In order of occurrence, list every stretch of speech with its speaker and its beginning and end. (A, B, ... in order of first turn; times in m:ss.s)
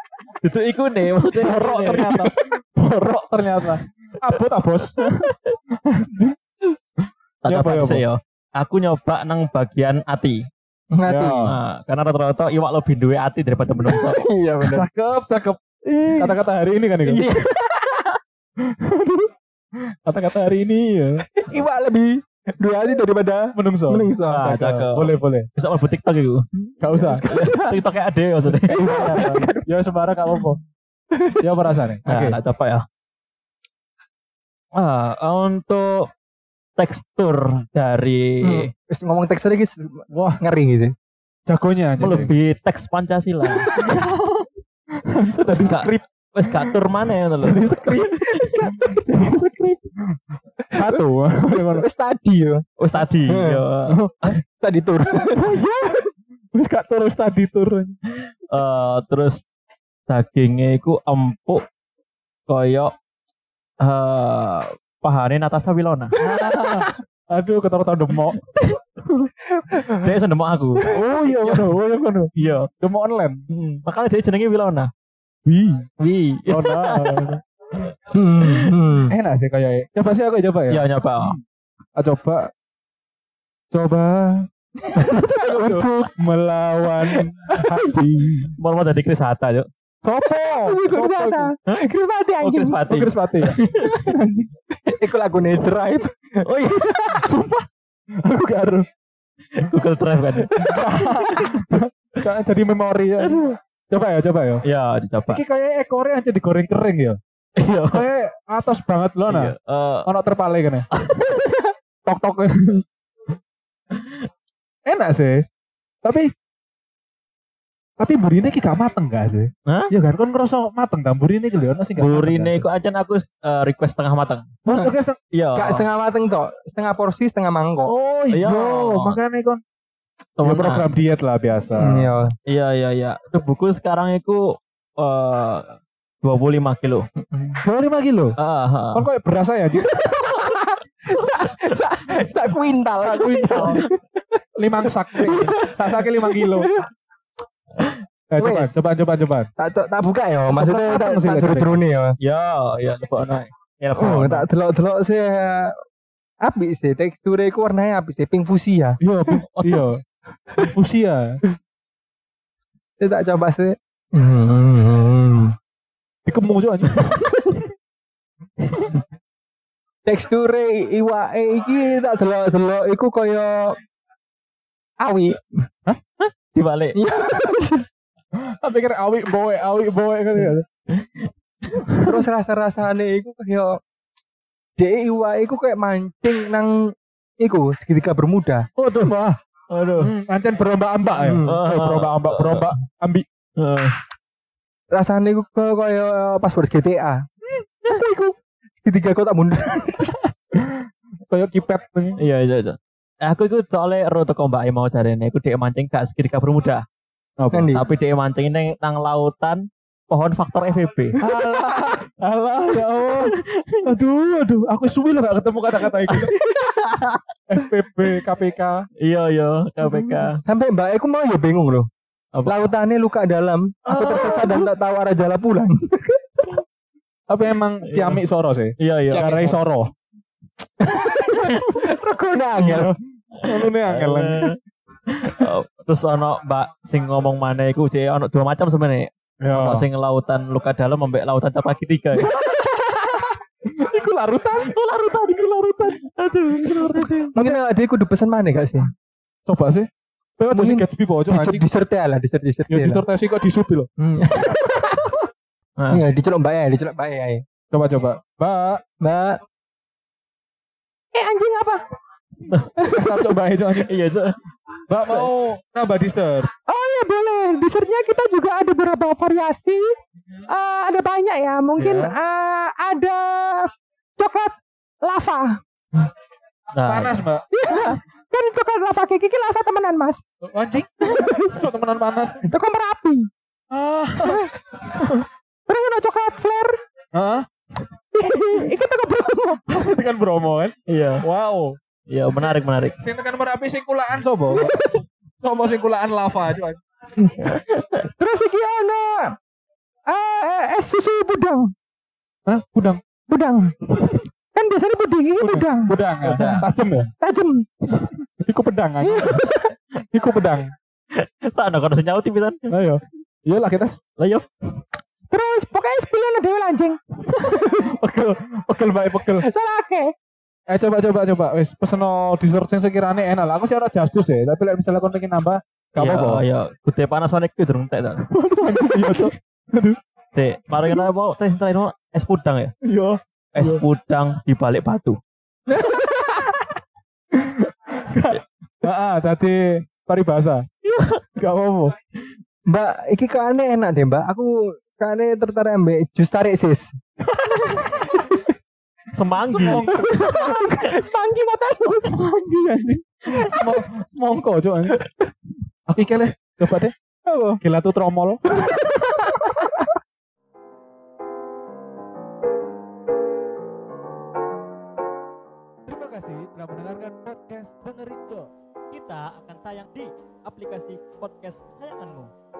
0:00.4-0:02.4 A
0:01.3-0:05.2 B
0:05.2-0:05.5 A
0:05.8-0:06.4 B
0:07.4-0:10.5 A
0:07.5-0:08.0 B
0:10.9-0:11.5 C
0:11.1-0:11.5 B
0:11.4-0:14.2 A
0:13.7-0:14.8 C
0:14.6-0:17.2 B
0:16.0-0:16.4 C
0:17.0-0:17.7 C
0:17.1-0:17.8 A
0:18.6-0:19.3 B
0:20.0-0:21.2 B
0:21.4-0:24.5 C
0:23.5-0:25.5 B
0:24.3-0:26.4 A
0:26.8-0:27.2 B
0:27.2-0:29.5 A
0:27.3-0:27.8 D
0:28.7-0:29.6 D
0:28.9-0:30.6 B
0:28.9-0:29.5 C
0:31.1-0:31.4 C
0:31.4-0:32.4 B
0:32.1-0:32.8 A
0:34.7-0:36.1 A
0:36.8-0:38.7 A
0:38.4-0:40.9 C
0:40.1-0:40.4 B
0:41.5-0:42.3 B
0:42.0-0:43.7 A
0:43.7-0:44.5 B
0:45.0-0:46.7 B
0:45.5-0:47.9 A
0:47.4-0:50.1 B
0:50.7-0:51.8 B
0:50.8-0:52.6 C
0:52.8-0:54.0 A
0:53.2-0:53.6 C
0:53.9-0:54.4 B
0:54.5-0:55.6 C
0:55.3-0:56.0 B
0:56.5-0:58.0 B
0:58.5-0:59.4 A
1:00.1-1:01.6 A
1:02.5-1:02.9 A
1:03.8-1:06.8 A
1:06.2-1:08.4 B
1:08.5-1:08.8 A
1:09.7-1:10.1 C
1:09.9-1:11.7 A
1:10.9-1:13.4 B
1:12.4-1:12.7 A
1:13.5-1:14.9 A
1:15.5-1:15.9 B
1:16.0-1:17.3 A
1:16.5-1:17.4 B
1:18.1-1:19.1 C
1:19.1-1:21.4 B
1:20.7-1:21.4 A
1:22.0-1:22.5 B
1:23.7-1:24.4 B
1:25.0-1:28.5 B
1:25.0-1:25.4 D
1:25.4-1:25.8 C
1:28.6-1:29.7 A
1:30.0-1:31.5 B
1:30.4-1:32.8 D
1:32.4-1:34.1 A
1:32.9-1:34.5 B
1:34.8-1:36.7 C
1:36.4-1:37.2 A
1:37.2-1:37.6 B
1:38.2-1:38.8 B
1:39.6-1:41.8 A
1:40.6-1:44.6 B
1:43.2-1:43.6 A
1:44.6-1:45.4 A
1:45.3-1:47.2 B
1:47.6-1:48.0 A
1:47.9-1:49.5 B
1:49.3-1:50.1 A
1:50.0-1:50.8 B
1:51.0-1:51.5 A
1:52.0-1:52.8 B
1:53.9-1:54.3 A
1:54.9-1:55.4 B
1:56.0-1:56.3 B
1:58.0-2:02.7 B
1:59.6-1:59.9 A
2:02.0-2:04.5 A
2:04.6-2:05.2 B
2:05.3-2:05.8 A
2:05.6-2:07.9 C
2:07.8-2:09.6 B
2:08.3-2:09.2 A
2:10.4-2:12.1 B
2:10.4-2:10.9 A
2:11.8-2:12.3 C
2:12.5-2:15.6 A
2:16.2-2:17.0 A
2:17.6-2:18.4 B
2:18.4-2:19.1 A
2:18.9-2:20.1 B
2:20.4-2:20.6 D
2:21.1-2:23.9 C
2:23.0-2:23.8 B
2:23.5-2:23.8 A
2:24.6-2:26.7 B
2:25.2-2:26.8 C
2:28.3-2:29.5 B
2:28.4-2:28.7 C
2:29.6-2:32.2 C
2:30.5-2:31.8 B
2:32.2-2:34.4 A
2:34.0-2:35.7 C
2:36.4-2:39.0 C
2:39.0-2:40.0 B
2:39.6-2:39.9 A
2:40.6-2:41.4 B
2:43.0-2:45.5 C
2:46.3-2:47.2 B
2:50.0-2:53.7 C
2:55.0-2:55.4 C
2:56.2-2:57.0 A
2:56.9-2:57.8 C
2:58.6-3:00.6 B
3:00.9-3:01.2 A
3:01.8-3:02.1 B
3:02.0-3:03.8 C
3:04.8-3:06.8 C
3:07.4-3:08.6 C
3:08.8-3:09.4 B
3:09.7-3:10.1 A
3:10.0-3:13.2 B
3:11.2-3:11.6 C
3:11.4-3:12.7 A
3:13.6-3:13.9 A
3:14.9-3:17.2 C
3:17.8-3:18.3 B
3:18.8-3:20.2 C
3:20.6-3:22.2 B
3:22.2-3:26.8 A
3:27.4-3:27.8 B
3:27.5-3:27.8 C
3:27.7-3:31.2 A
3:31.2-3:36.4 B
3:33.2-3:33.9 A
3:36.8-3:37.2 A
3:37.5-3:38.8 B
3:39.0-3:40.4 A
3:40.4-3:41.9 C
3:42.3-3:42.7 A
3:42.4-3:46.2 C
3:43.9-3:44.7 B
3:47.3-3:49.9 B
3:47.9-3:48.2 A
3:48.8-3:49.5 A
3:49.1-3:49.5 C
3:50.8-3:52.9 C
3:52.6-3:54.6 B
3:53.4-3:54.6 A
3:55.1-4:02.3 A
3:59.4-3:59.8 B
4:02.3-4:06.0 B
4:04.7-4:05.4 A
4:06.0-4:07.4 A
4:06.6-4:07.4 B
4:07.3-4:08.9 C
4:09.5-4:11.7 B
4:10.5-4:13.0 C
4:12.7-4:13.9 B
4:14.0-4:15.0 C
4:14.7-4:15.1 D
4:15.8-4:16.0 A
4:15.9-4:17.4 C
4:17.7-4:18.8 B
4:19.0-4:19.4 C
4:21.1-4:21.8 D
4:22.9-4:23.9 B
4:23.9-4:24.4 A
4:24.9-4:26.5 B
4:25.0-4:25.3 A
4:26.7-4:29.8 D
4:30.5-4:35.6 D
4:31.8-4:32.2 B
4:36.7-4:37.2 A
4:36.8-4:37.5 B
4:37.5-4:40.2 D
4:40.5-4:42.4 B
4:41.1-4:41.6 D
4:42.4-4:43.3 D
4:43.7-4:45.2 B
4:44.3-4:44.5 D
4:45.7-4:46.8 D
4:47.1-4:47.4 B
4:48.1-4:49.7 D
4:49.7-4:51.8 B
4:50.9-4:51.2 A
4:52.1-4:53.0 A
4:53.0-4:54.8 B
4:54.6-4:55.0 D
4:55.4-4:56.8 B
4:58.2-4:59.3 D
5:00.1-5:01.7 D
5:02.5-5:03.0 B
5:03.3-5:05.9 D
5:05.4-5:07.1 B
5:06.2-5:06.7 A
5:07.2-5:07.6 D
5:08.0-5:09.5 B
5:09.0-5:09.7 D
5:10.1-5:10.7 B
5:11.1-5:12.6 A
5:12.7-5:14.0 B
5:14.2-5:14.4 A
5:15.3-5:17.0 D
5:17.3-5:19.5 B
5:17.5-5:17.8 D
5:19.4-5:20.1 D
5:20.7-5:26.4 B
5:26.0-5:28.3 A
5:28.3-5:30.0 B
5:30.3-5:32.7 A
5:32.8-5:33.8 B
5:33.5-5:35.2 A
5:35.7-5:36.6 D
5:37.3-5:40.6 B
5:40.8-5:41.2 A
5:41.4-5:41.9 B
5:42.7-5:46.9 C
5:47.5-5:48.1 B
5:49.1-5:50.4 A
5:49.5-5:50.5 B
5:50.0-5:52.1 D
5:52.1-5:55.0 B
5:55.9-5:56.9 B
5:57.6-5:58.8 B
6:05.9-6:08.5 B
6:08.9-6:12.3 A